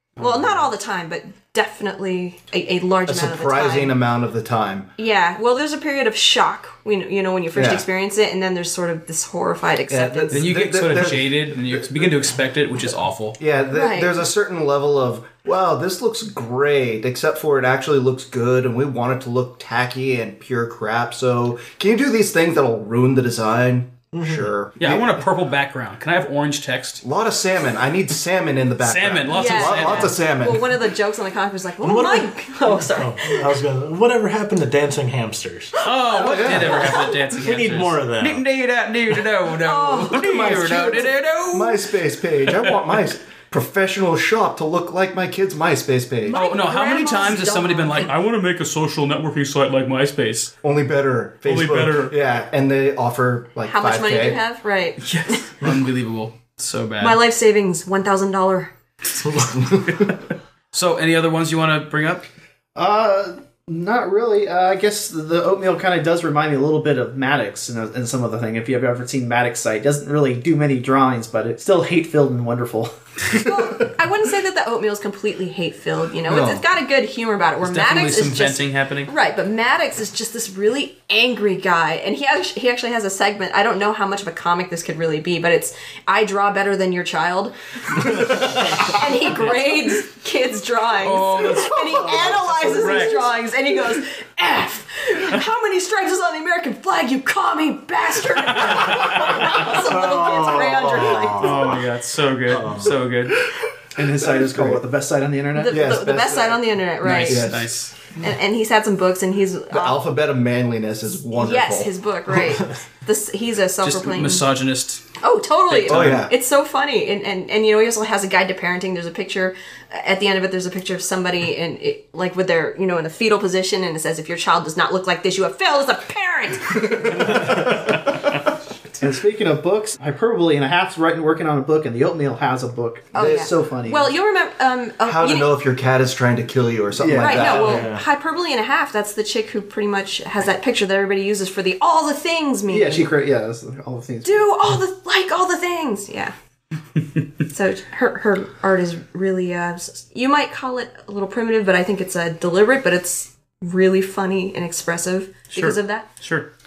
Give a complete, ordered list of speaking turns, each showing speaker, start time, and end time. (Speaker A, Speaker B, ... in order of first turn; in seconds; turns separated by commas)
Speaker A: 0.2-0.7, Speaker B: 0.2-4.0, Speaker C: 3.1-4.9, Speaker B: 5.0-10.5, Speaker C: 7.5-7.8, Speaker C: 9.9-12.0, Speaker A: 10.3-13.4, Speaker C: 13.4-25.1, Speaker B: 13.7-14.1, Speaker D: 24.1-24.5, Speaker A: 24.8-27.0, Speaker C: 27.0-30.8, Speaker A: 28.8-30.2, Speaker B: 29.3-33.5, Speaker D: 31.8-35.8, Speaker A: 35.8-41.9, Speaker C: 36.1-37.0, Speaker D: 36.5-38.4, Speaker B: 39.6-41.0, Speaker C: 40.0-46.4, Speaker A: 42.5-42.8, Speaker B: 46.3-48.1, Speaker A: 46.3-50.5, Speaker C: 50.6-54.4, Speaker A: 51.5-52.1, Speaker B: 53.7-55.4, Speaker A: 55.0-57.2, Speaker B: 57.0-58.7, Speaker A: 59.4-60.2, Speaker A: 60.7-62.3, Speaker E: 62.8-73.4, Speaker B: 73.4-101.8, Speaker A: 76.3-76.6, Speaker A: 77.6-79.1, Speaker A: 91.0-93.3, Speaker A: 98.5-99.5, Speaker D: 99.4-101.8, Speaker A: 101.4-103.4, Speaker D: 102.5-102.9, Speaker E: 104.0-105.8, Speaker C: 104.2-104.8, Speaker B: 105.6-107.5, Speaker C: 105.7-107.7, Speaker A: 107.0-108.0, Speaker B: 108.2-110.0, Speaker C: 109.7-111.9, Speaker B: 111.3-114.5, Speaker A: 113.8-115.1, Speaker B: 115.2-127.6, Speaker A: 115.7-116.3, Speaker C: 115.9-116.3, Speaker E: 129.0-134.1, Speaker B: 133.1-135.5, Speaker C: 133.2-133.6, Speaker C: 135.1-137.9, Speaker E: 137.0-137.8, Speaker B: 137.2-143.1, Speaker D: 137.5-138.0, Speaker E: 142.7-144.5, Speaker B: 144.2-146.3, Speaker B: 147.5-156.1, Speaker A: 155.5-156.5